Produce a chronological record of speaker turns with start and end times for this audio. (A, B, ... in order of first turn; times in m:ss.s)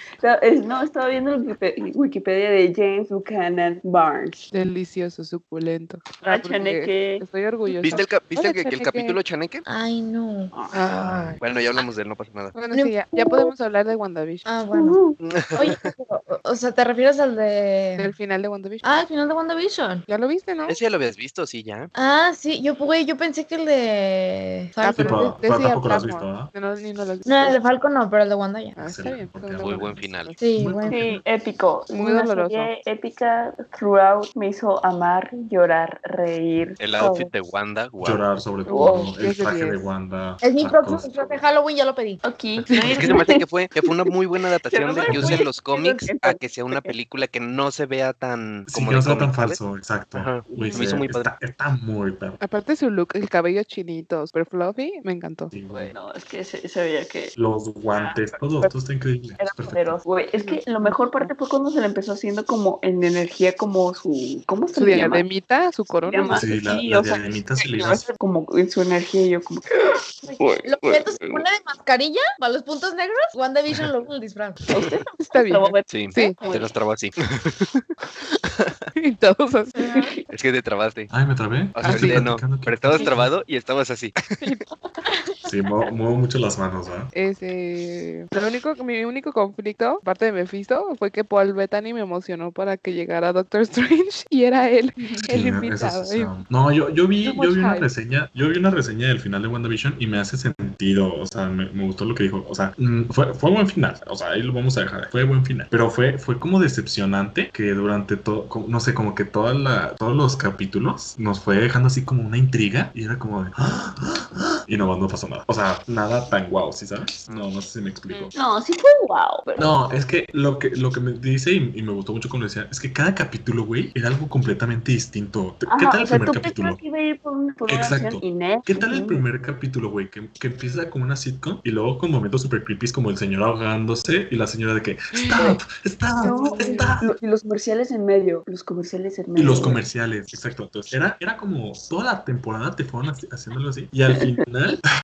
0:00.2-0:04.4 A
0:04.5-0:09.2 B
0:06.2-0:08.0 A
0:07.8-0:09.6 C
0:09.6-0:11.3 D
0:10.5-0:10.8 A
0:10.9-0:11.4 E
0:11.4-0:12.6 C
0:12.5-0:14.4 B
0:12.7-0:13.5 D
0:14.4-0:18.1 D
0:14.7-0:15.2 A
0:15.2-0:15.9 C
0:18.0-0:18.9 B
0:18.8-0:20.0 D
0:20.1-0:20.8 B
0:20.7-0:21.9 C
0:21.9-0:25.3 D
0:24.8-0:27.6 B
0:24.9-0:26.5 E
0:27.2-0:28.8 D
0:28.8-0:30.4 B
0:28.8-0:31.1 E
0:29.6-0:30.3 C
0:30.4-0:31.0 D
0:30.8-0:37.3 A
0:31.9-0:32.7 B
0:36.8-0:38.2 C
0:38.0-0:41.4 E
0:38.7-0:39.1 A
0:38.7-0:39.9 B
0:40.4-0:42.2 D
0:42.2-0:43.4 A
0:42.7-0:49.6 C
0:42.7-0:43.0 B
0:44.7-0:46.9 A
0:45.1-0:45.4 D
0:48.7-0:52.4 E
0:50.1-0:51.3 C
0:50.5-0:51.0 B
0:52.4-0:55.5 B
0:55.5-0:55.9 E
0:55.7-0:57.3 A
0:57.4-1:00.0 E
0:59.4-1:05.2 A
1:00.3-1:01.3 B
1:04.7-1:07.2 B
1:06.0-1:06.5 A
1:06.3-1:08.0 E
1:07.6-1:11.4 A
1:10.2-1:14.6 D
1:14.7-1:16.7 A
1:15.2-1:16.4 B
1:15.9-1:17.8 C
1:18.4-1:18.8 C
1:19.0-1:19.9 B
1:19.7-1:20.1 D
1:19.9-1:20.2 A
1:20.3-1:21.1 C
1:21.1-1:23.3 E
1:21.7-1:24.4 C
1:21.8-1:22.3 B
1:24.8-1:25.4 A
1:25.4-1:27.1 E
1:27.1-1:36.3 B
1:35.3-1:58.3 E
1:37.2-1:37.9 B
1:58.3-1:59.7 A
1:59.6-2:06.8 E
2:05.7-2:09.2 A
2:07.7-2:17.1 E
2:15.1-2:15.4 B
2:16.2-2:16.9 B
2:16.2-2:19.8 A
2:19.3-2:24.8 E
2:24.1-2:24.4 A